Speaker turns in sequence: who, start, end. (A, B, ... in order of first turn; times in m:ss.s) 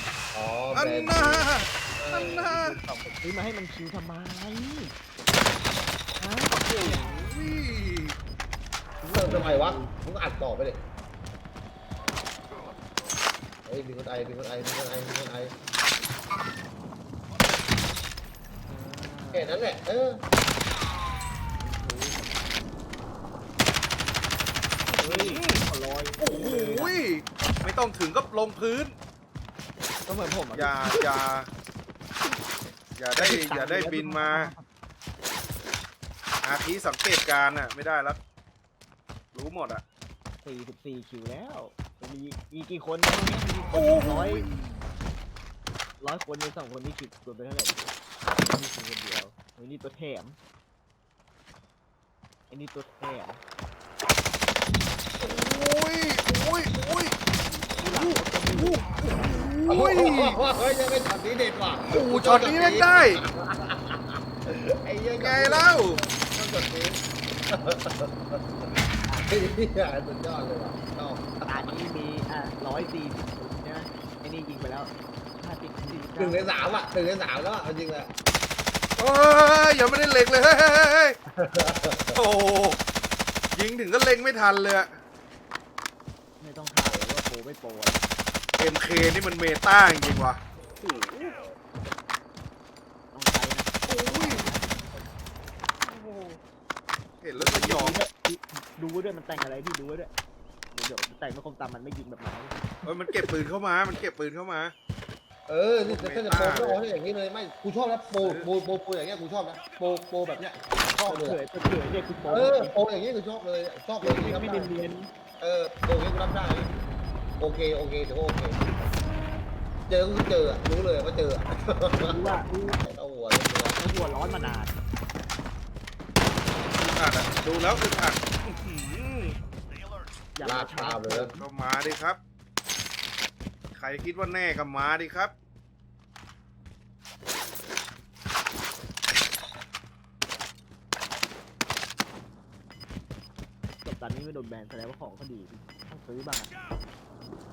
0:00.3-0:02.5 A
0:00.7-0:02.8 B
0:02.5-0:04.9 C
0:06.1-0:07.1 C
0:06.5-0:08.2 B
0:09.0-0:09.9 C
0:09.1-0:10.8 A
0:13.6-0:15.5 A
0:18.7-0:19.6 C
0:19.3-0:20.2 A
0:21.6-0:22.6 C
0:24.9-0:26.9 C
0:25.0-0:25.6 B
0:26.2-0:28.9 B
0:30.1-0:31.1 C
0:30.5-0:31.5 B
0:33.0-0:34.5 B
0:33.2-0:34.7 C
0:36.4-0:38.2 B
0:39.3-0:39.8 B
0:40.4-0:44.5 C
0:43.7-0:44.8 B
0:46.0-0:47.8 C
0:48.4-0:50.4 C
0:52.5-0:53.4 C
0:55.2-0:57.2 B
0:57.4-0:58.8 C
0:57.9-1:00.4 B
0:59.7-1:07.0 A
1:01.9-1:03.2 B
1:05.2-1:06.0 B
1:07.5-1:08.7 A
1:09.1-1:09.3 C
1:09.3-1:11.7 A
1:11.5-1:16.5 C
1:16.2-1:18.1 A
1:19.0-1:21.2 B
1:21.4-1:22.2 A
1:22.1-1:22.8 B
1:23.5-1:24.9 B
1:26.4-1:28.0 C
1:28.6-1:31.3 B
1:33.1-1:35.1 C
1:33.9-1:34.4 B
1:35.8-1:36.4 B
1:37.2-1:38.0 B
1:37.4-1:40.1 C
1:40.7-1:42.6 C
1:42.9-1:44.7 B
1:45.5-1:51.4 A
1:45.8-1:46.8 B
1:48.2-1:48.5 B
1:51.1-1:52.7 C
1:52.3-1:54.7 A
1:54.0-1:55.1 C
1:55.4-1:56.8 A
1:57.4-1:58.6 A
1:59.9-2:02.3 A
2:02.1-2:02.8 C
2:02.8-2:03.8 A
2:03.7-2:04.7 C
2:06.8-2:09.4 B
2:10.4-2:11.4 C
2:10.4-2:11.3 A
2:11.4-2:12.2 B
2:13.8-2:15.3 B
2:23.8-2:26.5 C